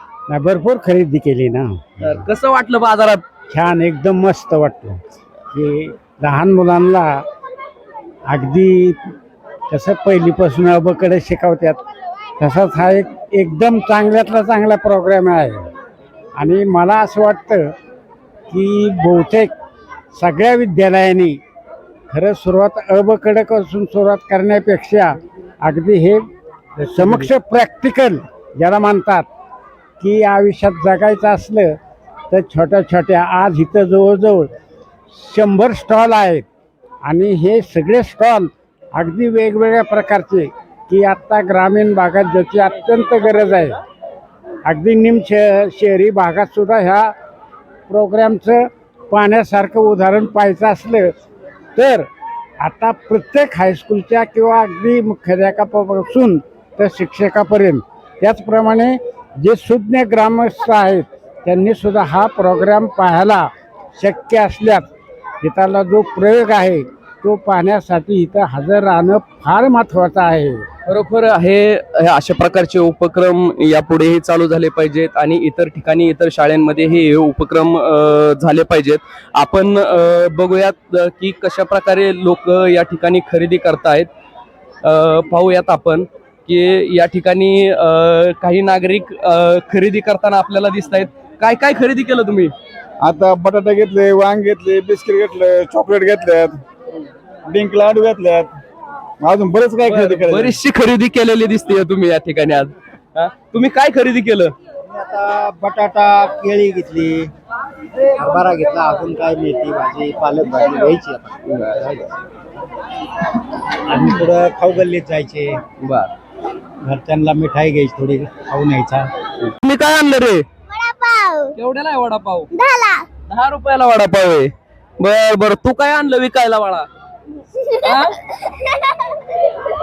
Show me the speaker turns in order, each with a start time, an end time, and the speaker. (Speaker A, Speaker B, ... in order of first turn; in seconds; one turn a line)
Speaker A: 0.3-1.9
Speaker B: 2.0-3.2
Speaker A: 3.5-5.0
Speaker A: 5.5-7.2
Speaker A: 8.3-9.1
Speaker A: 9.7-11.8
Speaker A: 12.4-15.7
Speaker A: 16.4-17.7
Speaker A: 18.5-19.5
Speaker A: 20.1-21.4
Speaker A: 22.1-29.3
Speaker A: 30.0-31.8
Speaker A: 32.3-34.5
Speaker A: 35.1-36.5
Speaker A: 37.0-43.8
Speaker A: 44.6-47.1
Speaker A: 47.9-51.1
Speaker A: 51.7-52.1
Speaker A: 52.6-64.9
Speaker A: 65.4-70.6
Speaker B: 70.9-84.1
Speaker B: 84.8-92.5
Speaker C: 93.0-96.6
Speaker C: 97.5-98.5
Speaker C: 99.2-100.5
Speaker B: 99.9-104.5
Speaker D: 108.2-111.3
Speaker D: 114.0-115.4
Speaker B: 115.8-116.1
Speaker D: 117.0-118.9
Speaker B: 119.5-120.5
Speaker E: 120.7-121.5
Speaker B: 121.5-122.5
Speaker E: 122.5-123.0
Speaker B: 123.3-126.9
Speaker E: 127.6-128.1
Speaker B: 127.8-128.1